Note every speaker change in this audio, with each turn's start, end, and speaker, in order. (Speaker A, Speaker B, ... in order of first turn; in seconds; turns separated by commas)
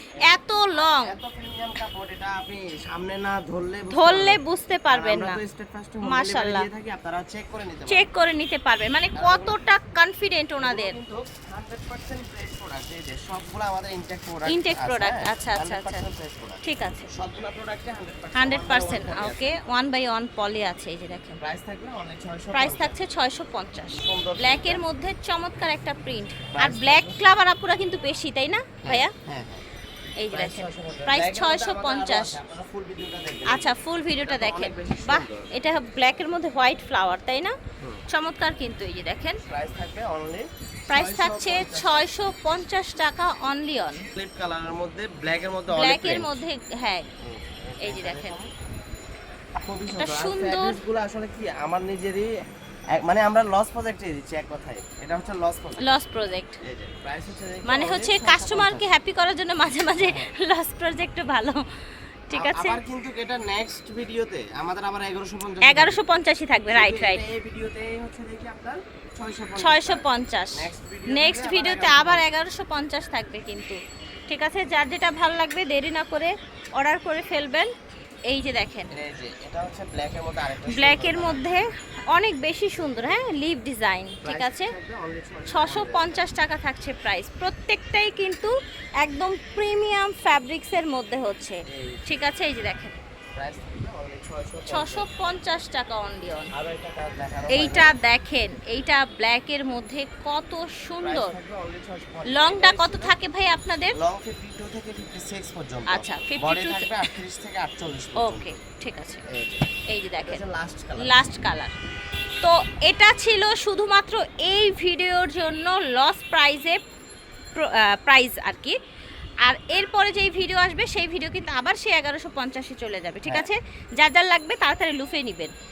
Speaker A: 0.2-8.1, Speaker B: 0.2-1.2, Speaker B: 3.9-5.4, Speaker B: 6.0-6.7, Speaker B: 7.9-11.0, Speaker A: 9.2-9.6, Speaker A: 10.6-19.6, Speaker B: 14.5-16.0, Speaker B: 16.6-17.1, Speaker B: 18.4-21.4, Speaker A: 21.4-23.0, Speaker B: 22.5-29.1, Speaker A: 24.0-24.8, Speaker A: 26.5-27.3, Speaker A: 28.8-29.6, Speaker B: 30.2-32.4, Speaker A: 30.3-35.6, Speaker B: 33.5-37.5, Speaker B: 38.1-39.4, Speaker A: 39.5-42.1, Speaker B: 40.9-44.1, Speaker A: 44.1-46.4, Speaker B: 45.7-47.0, Speaker A: 47.2-48.5, Speaker B: 47.8-48.4, Speaker A: 49.5-52.3, Speaker B: 49.9-50.8, Speaker A: 52.9-56.0, Speaker B: 55.8-56.6, Speaker A: 56.6-58.9, Speaker B: 57.7-61.7, Speaker A: 60.0-60.3, Speaker B: 62.3-62.8, Speaker A: 62.3-66.0, Speaker B: 65.6-67.2, Speaker A: 66.7-72.3, Speaker B: 69.6-77.7, Speaker B: 78.3-78.9, Speaker A: 78.9-81.6, Speaker B: 80.7-84.7, Speaker A: 84.2-86.3, Speaker B: 85.5-93.0, Speaker A: 91.7-92.2, Speaker A: 93.4-95.1, Speaker B: 94.7-96.5, Speaker A: 96.5-98.0, Speaker B: 97.5-101.3, Speaker A: 101.0-103.2, Speaker B: 102.3-104.0, Speaker A: 104.0-108.5, Speaker B: 105.9-107.1, Speaker B: 108.2-109.2, Speaker A: 109.3-109.7, Speaker B: 109.9-110.4, Speaker A: 110.2-111.3, Speaker B: 111.0-111.7, Speaker B: 112.4-116.8, Speaker B: 117.6-118.8, Speaker B: 119.4-125.5